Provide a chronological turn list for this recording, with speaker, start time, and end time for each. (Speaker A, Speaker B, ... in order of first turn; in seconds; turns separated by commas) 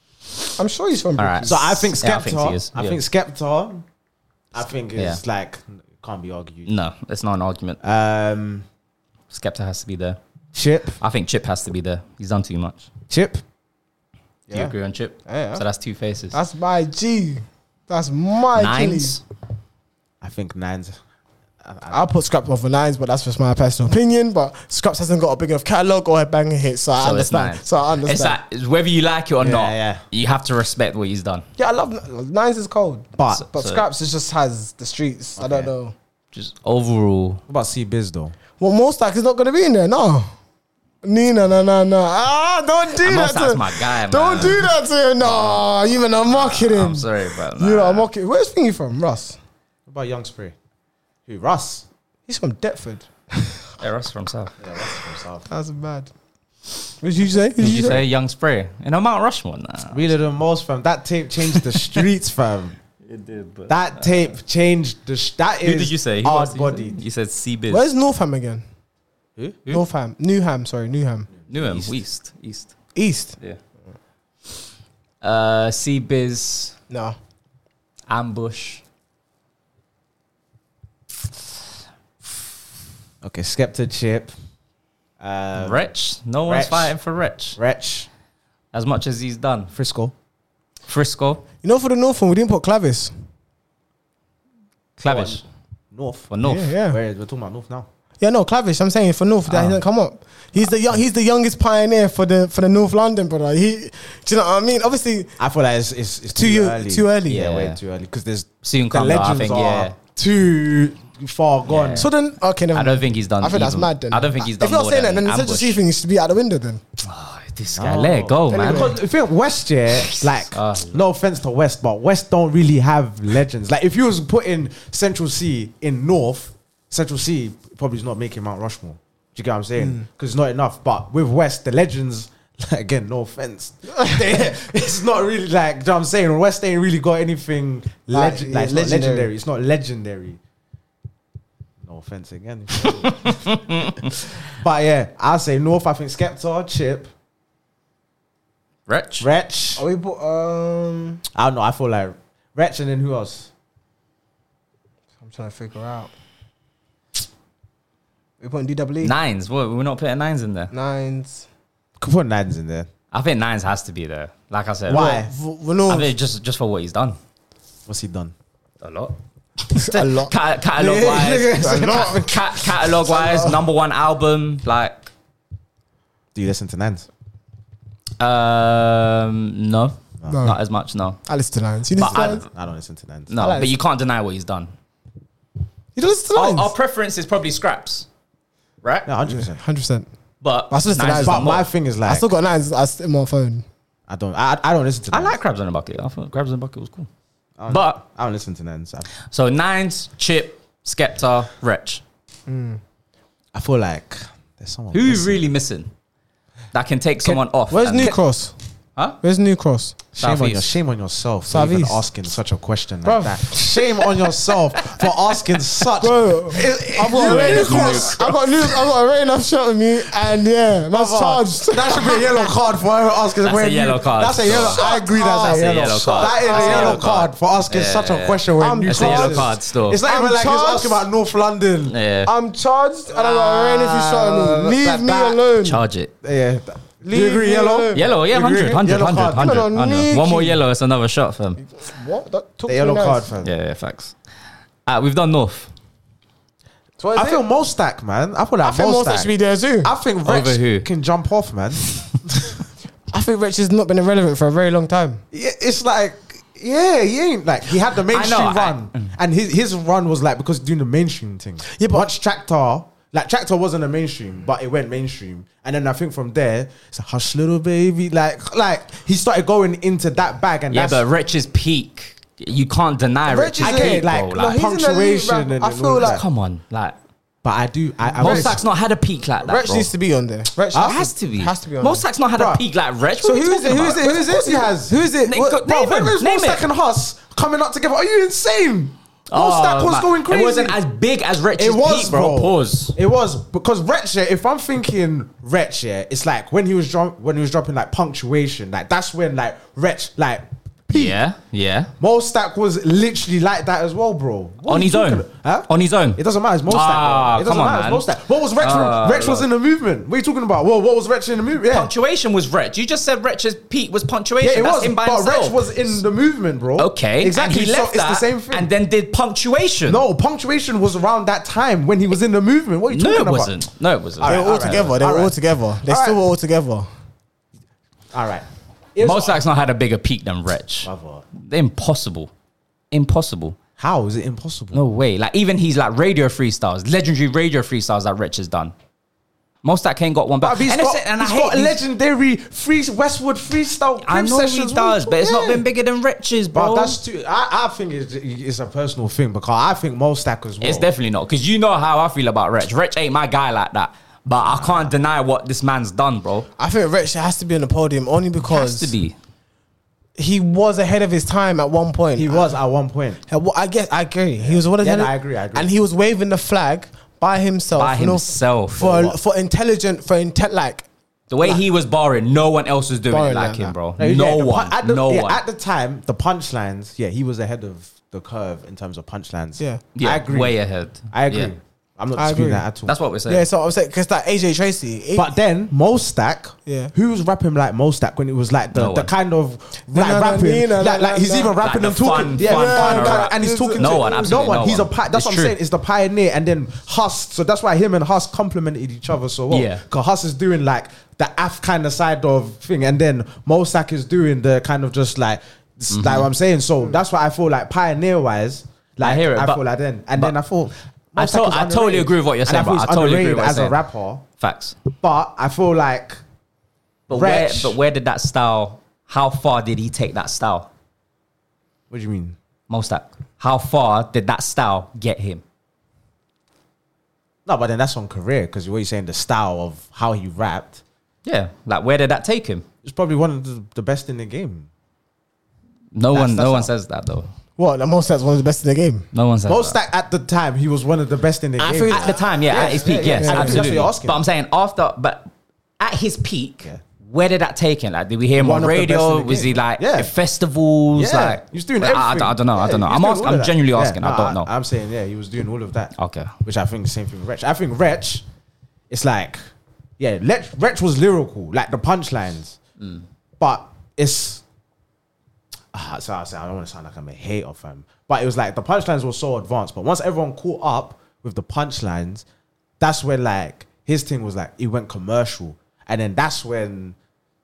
Speaker A: 0.6-1.9, Speaker B: 1.2-3.0, Speaker C: 1.4-3.8, Speaker C: 4.5-6.7, Speaker B: 5.0-5.2, Speaker B: 6.7-7.8, Speaker C: 7.8-8.7, Speaker B: 9.3-10.2, Speaker C: 10.5-11.0, Speaker B: 11.0-12.9, Speaker C: 13.1-13.4, Speaker B: 14.5-16.4, Speaker A: 15.3-15.6, Speaker A: 16.3-19.2, Speaker B: 18.6-19.2, Speaker C: 20.2-21.0, Speaker C: 21.6-22.0, Speaker A: 21.9-28.4, Speaker B: 27.0-31.4, Speaker C: 29.4-30.0, Speaker A: 31.6-36.0, Speaker C: 33.2-33.5, Speaker B: 33.4-33.8, Speaker C: 35.4-35.7, Speaker B: 36.3-37.4, Speaker C: 37.5-38.4, Speaker A: 38.6-40.3, Speaker A: 41.0-49.4, Speaker B: 43.0-44.7, Speaker B: 45.2-45.7, Speaker B: 46.2-48.1, Speaker C: 49.9-50.5, Speaker C: 51.3-51.9, Speaker A: 52.3-53.7, Speaker B: 53.8-54.5, Speaker C: 54.6-55.5, Speaker A: 55.5-56.1, Speaker A: 57.0-58.0, Speaker B: 57.6-60.1, Speaker C: 59.9-62.8, Speaker B: 63.1-64.1, Speaker C: 63.7-67.0, Speaker B: 65.6-67.9, Speaker A: 67.7-68.6, Speaker A: 69.7-71.3, Speaker C: 71.5-71.9, Speaker B: 71.5-72.7, Speaker A: 73.0-73.4, Speaker B: 75.2-76.8, Speaker A: 76.9-77.2, Speaker B: 78.1-78.8, Speaker C: 83.2-84.3, Speaker C: 85.2-85.8, Speaker B: 85.6-87.6, Speaker C: 86.5-86.9, Speaker C: 87.6-88.1, Speaker B: 88.7-89.7, Speaker C: 89.7-90.1, Speaker B: 90.9-91.4, Speaker A: 91.6-93.1, Speaker B: 95.0-95.4, Speaker C: 95.1-97.9, Speaker B: 96.3-96.7, Speaker A: 96.4-97.0, Speaker A: 98.2-105.3, Speaker C: 105.4-112.1, Speaker A: 106.3-107.5, Speaker B: 107.3-107.8, Speaker B: 108.6-110.0, Speaker B: 111.7-112.1, Speaker A: 112.0-116.8, Speaker B: 112.7-115.8, Speaker B: 117.0-119.0, Speaker C: 117.7-140.4, Speaker A: 118.5-119.0, Speaker B: 119.9-121.0, Speaker A: 134.0-134.3, Speaker A: 138.1-139.3, Speaker C: 141.8-147.1, Speaker B: 143.0-144.2, Speaker B: 148.9-149.3, Speaker C: 149.2-149.8, Speaker A: 149.8-151.2, Speaker C: 151.3-153.5, Speaker A: 155.2-156.1, Speaker A: 158.4-159.1, Speaker B: 159.0-160.7, Speaker A: 160.7-161.5, Speaker C: 162.0-162.9, Speaker B: 163.1-165.1, Speaker C: 164.9-165.3, Speaker A: 164.9-166.1, Speaker B: 165.9-167.2, Speaker C: 167.9-168.3, Speaker B: 168.8-169.2, Speaker B: 169.7-175.1, Speaker A: 169.8-170.3, Speaker C: 170.8-172.4, Speaker A: 171.6-172.2, Speaker A: 173.1-173.6, Speaker C: 176.3-177.1, Speaker B: 178.2-181.2, Speaker A: 180.3-180.6, Speaker A: 181.3-182.4, Speaker B: 181.9-182.5, Speaker C: 182.1-183.3, Speaker B: 183.3-184.7, Speaker A: 183.4-183.7, Speaker A: 185.9-186.7, Speaker B: 186.3-188.1, Speaker B: 188.8-189.1, Speaker C: 189.1-189.6, Speaker A: 189.2-190.1, Speaker B: 190.4-191.7, Speaker A: 190.7-193.7, Speaker C: 191.1-192.3, Speaker C: 194.1-195.3, Speaker B: 195.1-197.1, Speaker C: 197.6-199.1, Speaker B: 197.7-198.0, Speaker B: 199.3-202.0, Speaker A: 202.5-202.8, Speaker C: 203.5-205.5, Speaker B: 204.9-205.9, Speaker B: 206.7-208.2, Speaker A: 207.7-208.5, Speaker A: 209.2-210.0, Speaker C: 210.2-218.3, Speaker B: 210.2-210.7, Speaker A: 211.5-212.1, Speaker A: 213.0-213.9, Speaker B: 214.8-215.2, Speaker A: 216.0-222.5, Speaker B: 217.1-218.4, Speaker C: 220.9-232.0, Speaker B: 223.4-230.0, Speaker A: 224.7-227.1, Speaker A: 228.6-231.1, Speaker B: 231.9-232.3, Speaker A: 232.3-235.8, Speaker C: 233.1-235.4, Speaker B: 235.6-236.1, Speaker C: 236.2-239.7, Speaker A: 237.0-238.0, Speaker B: 237.9-241.6, Speaker A: 239.4-240.6, Speaker A: 241.6-243.3, Speaker C: 242.7-243.5, Speaker B: 243.4-244.2, Speaker B: 244.9-245.7, Speaker C: 247.0-249.3, Speaker A: 247.1-247.4, Speaker A: 248.6-249.9, Speaker C: 249.8-252.5, Speaker B: 250.2-250.9, Speaker A: 253.1-255.2, Speaker C: 255.3-271.0, Speaker B: 258.1-259.1, Speaker A: 261.7-262.1, Speaker B: 270.7-274.6, Speaker A: 273.3-276.2, Speaker C: 273.6-276.2, Speaker B: 276.0-277.0, Speaker C: 277.4-278.6, Speaker A: 278.1-278.6, Speaker B: 278.2-279.9, Speaker A: 279.4-282.0, Speaker C: 280.7-281.0, Speaker B: 280.8-284.1, Speaker C: 282.4-282.6, Speaker A: 283.2-285.6, Speaker C: 283.8-285.0, Speaker B: 285.2-286.6, Speaker C: 285.6-290.8, Speaker B: 289.3-293.0, Speaker C: 291.6-301.2, Speaker B: 300.9-301.9, Speaker C: 302.0-311.9, Speaker B: 304.7-308.1, Speaker B: 308.6-309.5, Speaker B: 311.7-316.0, Speaker C: 314.4-318.7, Speaker B: 316.8-320.0, Speaker C: 319.9-323.6, Speaker B: 322.9-324.5, Speaker C: 324.2-326.2, Speaker A: 324.2-326.9, Speaker C: 328.1-329.4, Speaker B: 329.0-332.3, Speaker C: 330.8-331.2, Speaker B: 332.9-333.6, Speaker C: 333.8-334.8, Speaker B: 334.7-338.7, Speaker B: 339.6-341.8, Speaker C: 340.4-345.6, Speaker B: 344.0-347.0, Speaker C: 346.5-350.9, Speaker B: 350.6-356.5, Speaker C: 354.4-354.9, Speaker A: 356.6-358.9, Speaker B: 358.5-359.2, Speaker A: 360.2-362.5, Speaker C: 362.2-363.2, Speaker A: 363.3-370.9, Speaker C: 364.4-365.7, Speaker B: 367.8-369.0, Speaker C: 368.8-369.2, Speaker B: 371.3-375.4, Speaker A: 373.1-373.7, Speaker C: 374.0-380.6, Speaker B: 379.9-381.5, Speaker C: 381.1-382.9, Speaker A: 382.2-382.7, Speaker B: 382.9-383.5, Speaker A: 383.3-385.4, Speaker C: 385.1-414.2, Speaker A: 386.7-386.9, Speaker B: 388.7-389.1, Speaker A: 389.9-391.6, Speaker B: 391.6-395.6, Speaker A: 392.4-394.5, Speaker B: 399.5-399.8, Speaker B: 405.9-406.3, Speaker B: 409.0-409.6, Speaker B: 411.2-413.8, Speaker B: 414.4-414.8, Speaker C: 415.0-416.2, Speaker B: 417.1-420.7, Speaker C: 417.1-417.8, Speaker C: 421.9-422.4, Speaker B: 422.7-425.4, Speaker C: 427.5-430.8, Speaker B: 431.2-432.6, Speaker C: 432.8-434.7, Speaker B: 435.9-437.3, Speaker C: 436.1-436.7, Speaker A: 437.6-439.1, Speaker B: 439.1-439.8, Speaker C: 439.5-444.2, Speaker A: 441.6-443.9, Speaker B: 441.9-454.5, Speaker C: 448.4-450.1, Speaker C: 451.0-458.2, Speaker B: 456.0-456.3, Speaker C: 458.9-459.4, Speaker C: 460.0-462.6, Speaker B: 462.8-463.1, Speaker C: 463.4-464.4, Speaker C: 465.7-472.2, Speaker C: 472.8-477.0